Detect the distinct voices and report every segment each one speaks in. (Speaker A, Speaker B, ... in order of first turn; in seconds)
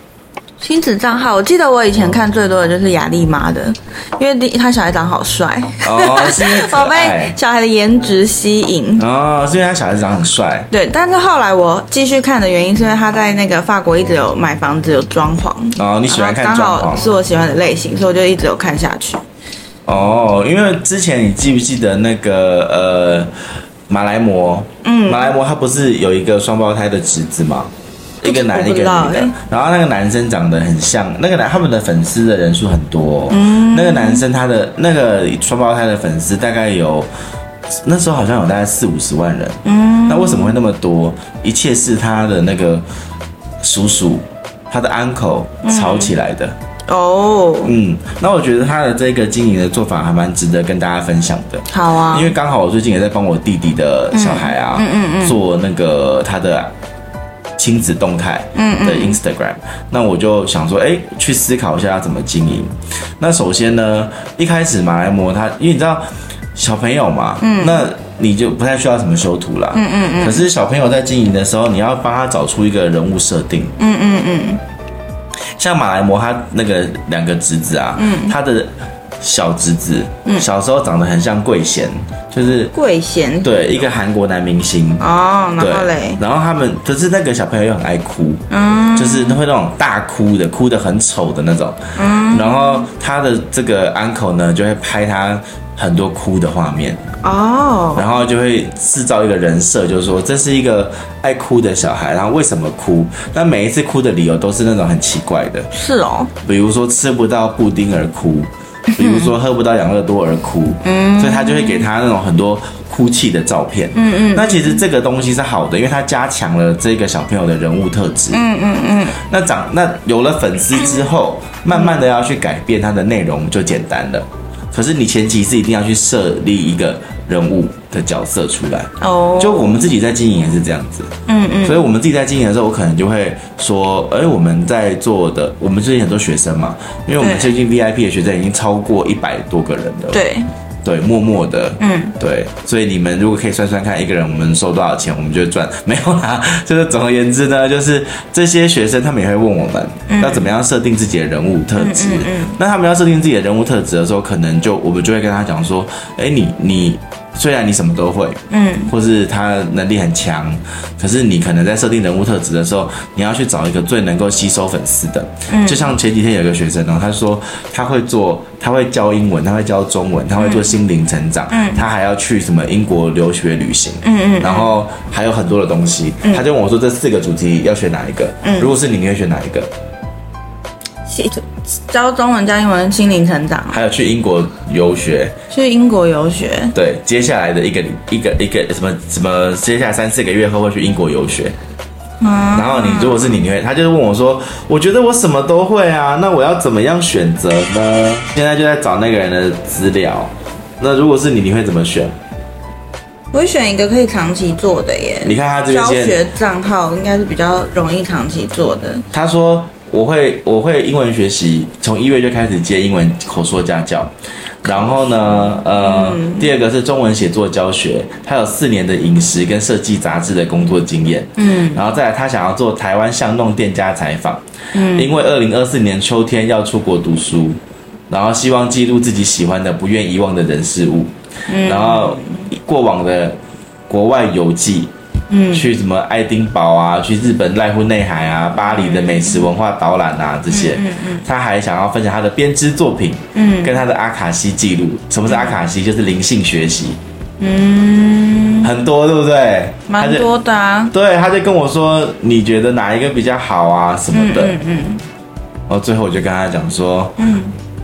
Speaker A: 0.6-9.0, 10.7-19.2, 24.8-25.3, 28.2-29.3, 33.3-34.2, 39.6-40.5, 45.6-46.1, 46.9-47.7, 51.7-52.3, 54.1-55.4, 58.5-59.2, 67.4-67.8, 69.7-70.5, 73.8-74.6, 78.0-78.3, 82.7-83.8, 85.0-86.2, 88.5-89.4, 92.0-92.9, 97.2-98.1, 105.7-106.3, 108.9-109.3, 110.8-111.9, 113.9-114.8, 118.3-119.2, 121.7-122.0, 129.0-129.9, 131.3-131.9, 137.2-137.5, 140.1-140.5, 141.8-142.1, 150.1-150.5, 151.8-152.6, 158.5-158.9, 165.5-165.9, 170.4-170.7, 171.5-171.8, 174.0-174.7, 178.4-178.7, 181.1-183.8, 185.5-186.7, 192.2-193.4, 203.3-209.0, 214.7-216.5, 221.4-221.8, 224.7-225.2, 231.5-232.4, 235.3-235.7, 238.7-239.5, 240.5-241.2, 243.3-243.8, 245.2-245.6, 247.4-248.7, 249.9-250.9, 254.1-255.0, 257.2-257.5
Speaker B: 5.8-7.3, 9.0-10.7, 15.8-17.0, 19.9-23.3, 23.9-27.7, 28.2-37.1, 37.8-42.8, 43.6-46.5, 47.6-56.7, 57.6-73.7, 75.5-82.7, 83.4-85.1, 85.6-88.4, 88.9-91.8, 92.3-97.0, 97.9-105.7, 106.4-118.4, 119.2-131.1, 131.6-140.2, 140.8-179.7, 183.7-185.3, 186.7-191.6, 192.5-202.1, 205.2-206.2, 209.1-214.1, 214.6-233.4, 233.9-234.9, 235.5-247.0, 248.6-250.3, 250.9-254.6, 255.7-257.2